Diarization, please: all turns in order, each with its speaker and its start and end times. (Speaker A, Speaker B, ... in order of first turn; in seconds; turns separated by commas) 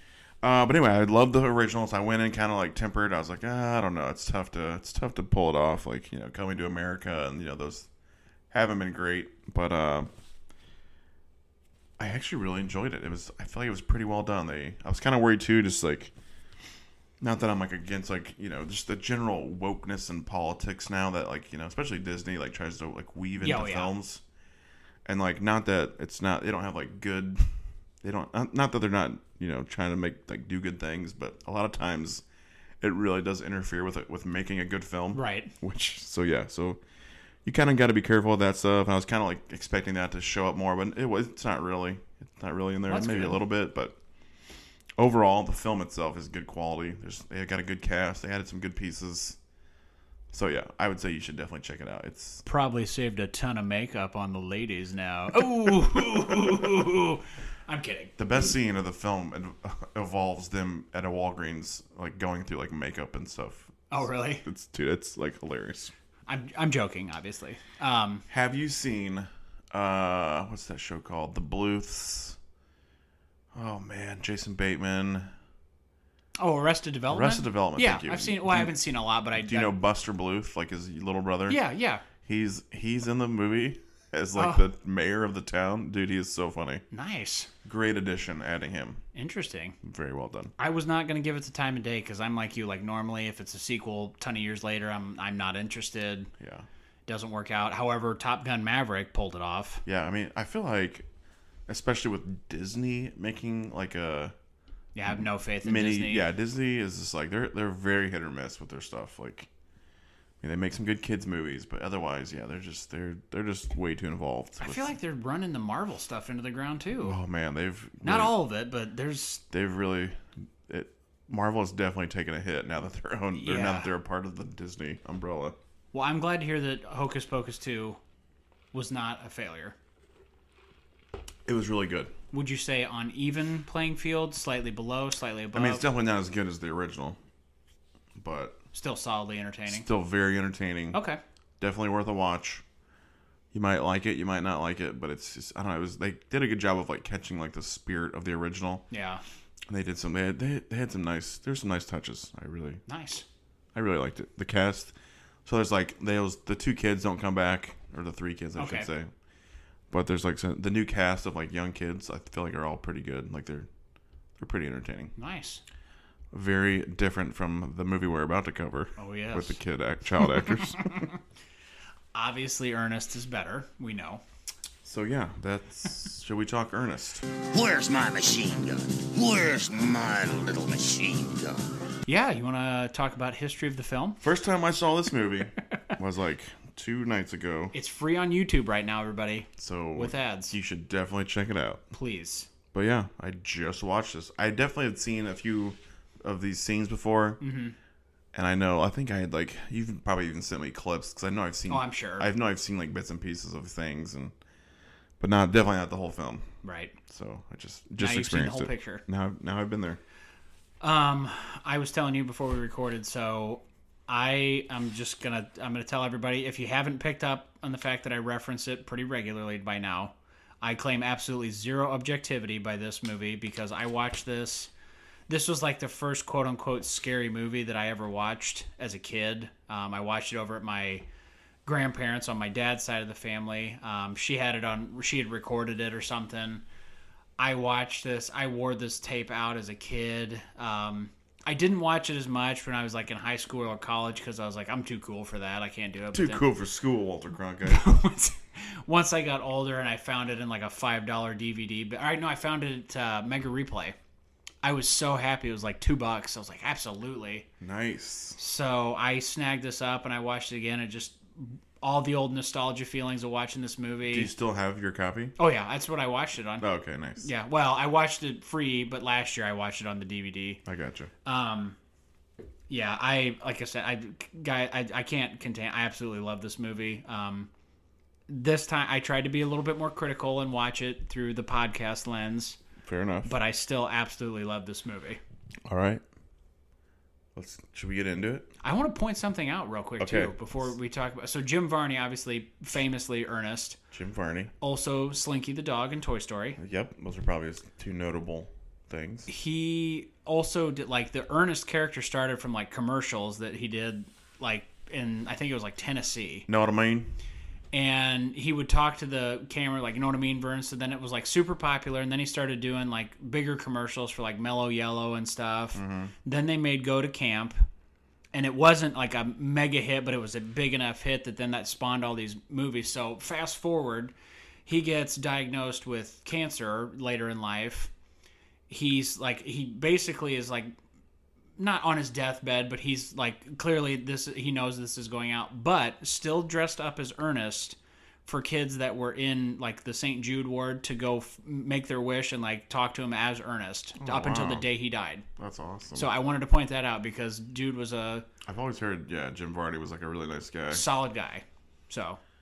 Speaker A: 0.4-7.9, Speaker A: 8.5-10.1, Speaker A: 12.0-16.1, Speaker A: 17.2-24.2, Speaker B: 23.4-23.9, Speaker A: 25.1-27.5, Speaker A: 28.0-32.2, Speaker A: 32.8-36.8, Speaker B: 35.1-35.5, Speaker A: 37.5-44.0, Speaker B: 42.9-43.4, Speaker A: 45.0-49.4, Speaker A: 50.3-52.4, Speaker B: 52.5-58.2, Speaker A: 58.2-65.9, Speaker B: 63.9-64.4, Speaker B: 66.3-68.2, Speaker A: 68.3-72.4, Speaker A: 73.5-75.3, Speaker B: 76.4-79.8, Speaker A: 77.1-78.8, Speaker A: 79.3-81.6, Speaker B: 81.5-82.0, Speaker A: 82.2-86.8, Speaker B: 84.4-84.7, Speaker B: 86.9-87.5, Speaker A: 87.7-89.0, Speaker B: 89.2-89.8, Speaker A: 89.8-90.5, Speaker B: 90.6-96.3, Speaker A: 96.4-96.7, Speaker B: 97.1-99.8, Speaker A: 99.9-101.1, Speaker A: 101.7-104.3, Speaker B: 105.0-106.3, Speaker A: 105.6-109.5, Speaker A: 110.4-115.0, Speaker B: 114.6-117.2, Speaker A: 117.0-118.3, Speaker B: 118.0-119.4, Speaker A: 119.5-125.6, Speaker B: 123.4-123.9, Speaker B: 125.9-128.0, Speaker B: 128.7-129.8, Speaker A: 131.5-132.1, Speaker B: 132.3-135.8, Speaker A: 135.5-137.2, Speaker A: 138.2-138.6, Speaker B: 138.7-139.9, Speaker A: 139.7-141.0, Speaker B: 140.9-141.2, Speaker A: 141.6-142.6, Speaker A: 143.5-148.9, Speaker B: 148.9-149.2, Speaker A: 149.7-152.8, Speaker B: 152.9-153.3, Speaker A: 153.8-154.9, Speaker A: 155.4-159.1, Speaker B: 158.6-158.9, Speaker A: 159.9-163.7, Speaker A: 164.4-165.1, Speaker B: 165.2-165.6, Speaker A: 166.3-171.1, Speaker B: 169.0-169.6, Speaker B: 170.8-171.1, Speaker B: 172.1-174.2, Speaker A: 174.8-177.3, Speaker C: 177.5-181.7, Speaker B: 182.1-184.2, Speaker A: 184.2-187.8, Speaker B: 187.7-190.6, Speaker A: 189.6-191.9, Speaker B: 191.9-192.5, Speaker A: 192.7-197.4, Speaker B: 197.4-197.8, Speaker A: 198.3-204.3, Speaker B: 201.7-202.3, Speaker A: 205.2-206.5, Speaker B: 206.6-207.0, Speaker A: 207.1-210.0, Speaker B: 208.0-209.0, Speaker B: 210.8-224.7, Speaker B: 225.3-231.1, Speaker B: 231.7-236.6, Speaker B: 237.4-246.4, Speaker A: 246.1-247.9, Speaker B: 247.7-254.0, Speaker B: 254.6-257.5, Speaker A: 257.6-258.4, Speaker B: 258.4-264.3, Speaker A: 264.1-265.4, Speaker B: 265.4-266.7, Speaker A: 266.6-267.3, Speaker B: 267.2-270.6, Speaker A: 270.6-271.1, Speaker B: 271.2-271.8, Speaker B: 272.7-277.5, Speaker B: 278.3-282.6, Speaker A: 282.8-283.3, Speaker B: 283.2-285.2, Speaker A: 285.7-286.0, Speaker A: 287.4-288.5, Speaker B: 288.6-293.8, Speaker A: 290.0-290.4, Speaker A: 293.9-294.5, Speaker B: 294.6-296.6, Speaker A: 296.6-299.3, Speaker B: 299.3-306.5, Speaker A: 306.5-307.1, Speaker B: 307.7-317.6, Speaker A: 315.8-316.1, Speaker B: 318.3-324.1, Speaker B: 324.7-327.9, Speaker B: 328.7-330.7, Speaker B: 331.6-345.3, Speaker A: 344.0-344.7, Speaker A: 345.4-346.1, Speaker B: 345.9-348.3, Speaker A: 348.4-350.9, Speaker B: 350.7-352.2